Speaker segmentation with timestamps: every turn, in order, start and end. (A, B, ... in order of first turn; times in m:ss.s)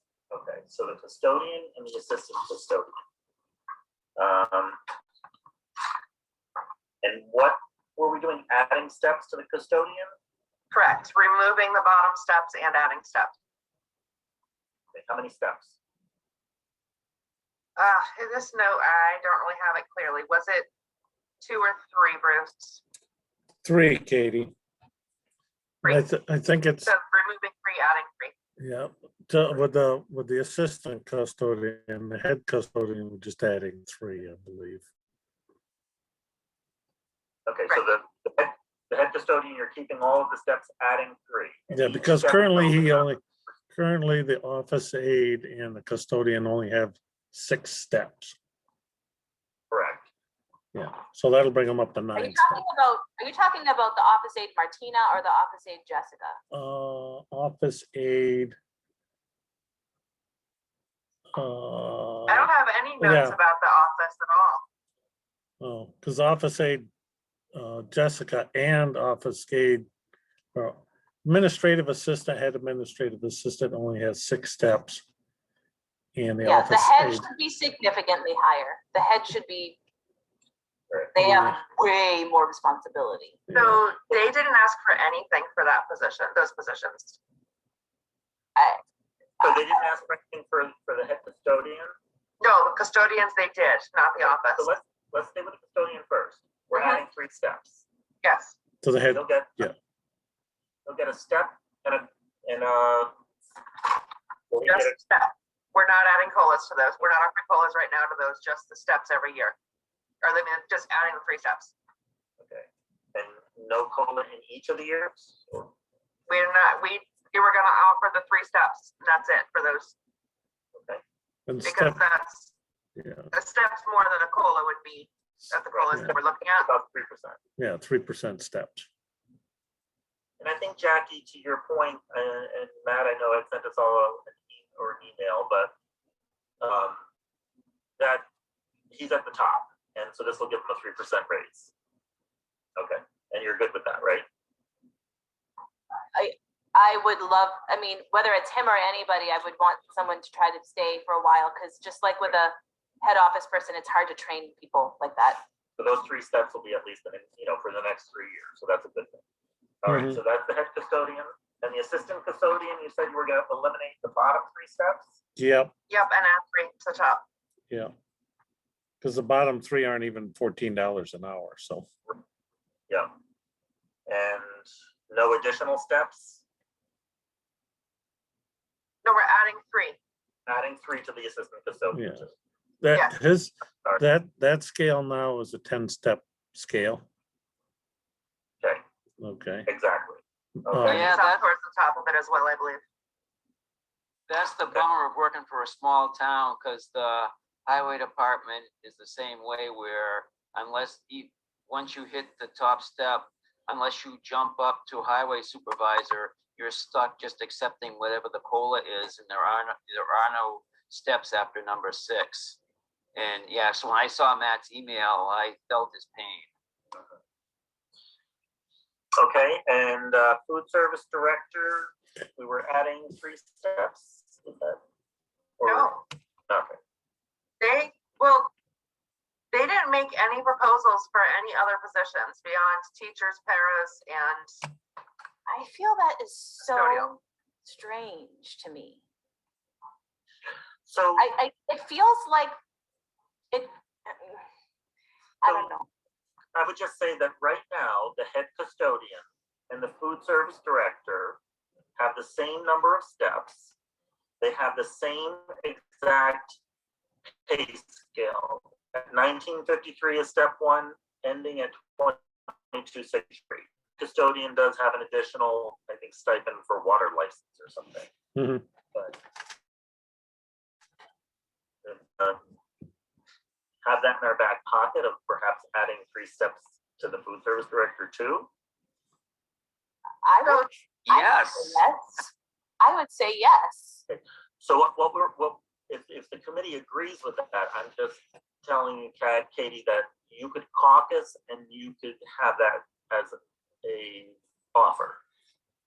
0:00.3-0:02.9 A
0:04.2-0:04.8 A
0:07.0-0:10.1 A
0:10.7-0:13.4 B
0:14.9-0:15.8 A
0:17.8-0:20.7 B
0:21.4-0:22.8 B
0:23.6-0:24.5 C
0:25.8-0:26.9 C
0:26.8-0:28.4 B
0:28.6-0:34.9 C
0:37.5-0:43.1 A
0:41.7-0:43.2 C
0:43.7-0:48.4 C
0:49.7-0:50.1 A
0:50.7-0:52.6 C
0:52.2-0:56.4 D
0:56.5-0:58.6 C
1:01.3-1:03.4 C
1:02.3-1:04.6 B
1:05.6-1:06.9 C
1:07.5-1:09.9 C
1:10.5-1:15.0 C
1:16.2-1:17.2 C
1:16.4-1:19.8 D
1:21.1-1:23.4 D
1:21.2-1:21.6 C
1:23.5-1:23.9 C
1:23.5-1:27.2 B
1:28.6-1:28.8 D
1:29.4-1:29.7 D
1:29.4-1:31.9 A
1:32.4-1:34.7 B
1:34.2-1:37.8 A
1:38.2-1:38.6 B
1:38.8-1:39.7 C
1:39.1-1:39.7 A
1:40.9-1:43.1 A
1:44.5-1:45.0 A
1:44.6-1:49.6 B
1:50.2-1:51.7 B
1:52.4-1:55.7 A
1:56.3-2:00.0 B
2:00.8-2:01.0 A
2:01.5-2:02.0 C
2:01.6-2:02.5 B
2:03.0-2:03.3 C
2:03.3-2:06.7 B
2:05.6-2:07.4 A
2:07.6-2:08.9 C
2:10.4-2:15.8 A
2:16.6-2:17.0 A
2:18.0-2:18.3 A
2:18.9-2:21.7 A
2:22.8-2:24.3 A
2:26.2-2:35.4 D
2:35.8-2:39.2 A
2:39.8-2:45.1 A
2:39.9-2:40.2 C
2:45.4-2:45.7 C
2:45.9-2:47.2 B
2:49.0-2:51.9 C
2:54.1-2:56.4 A
2:59.0-3:00.0 B
3:00.5-3:02.3 A
3:01.9-3:02.2 C
3:02.8-3:07.0 C
3:09.2-3:09.7 C
3:09.7-3:11.2 A
3:10.6-3:11.1 C
3:10.8-3:12.8 B
3:10.9-3:11.3 E
3:14.3-3:32.6 E
3:33.2-3:36.5 E
3:39.2-3:44.8 A
3:45.6-3:46.8 A
3:45.7-3:46.0 B
3:47.6-3:48.5 B
3:49.5-3:54.6 B
3:55.5-3:59.0 D
3:56.6-3:57.1 B
4:00.8-4:01.3 A
4:01.2-4:02.5 D
4:03.5-4:04.4 D
4:05.4-4:05.9 D
4:05.4-4:05.7 A
4:06.6-4:11.4 A
4:12.0-4:13.7 A
4:14.4-4:16.6 A
4:17.4-4:28.1 A
4:28.4-4:28.6 C
4:28.9-4:29.2 A
4:31.8-4:32.4 A
4:33.8-4:38.5 A
4:40.2-4:44.0 D
4:40.4-4:40.8 B
4:41.1-4:41.8 E
4:44.1-4:55.2 A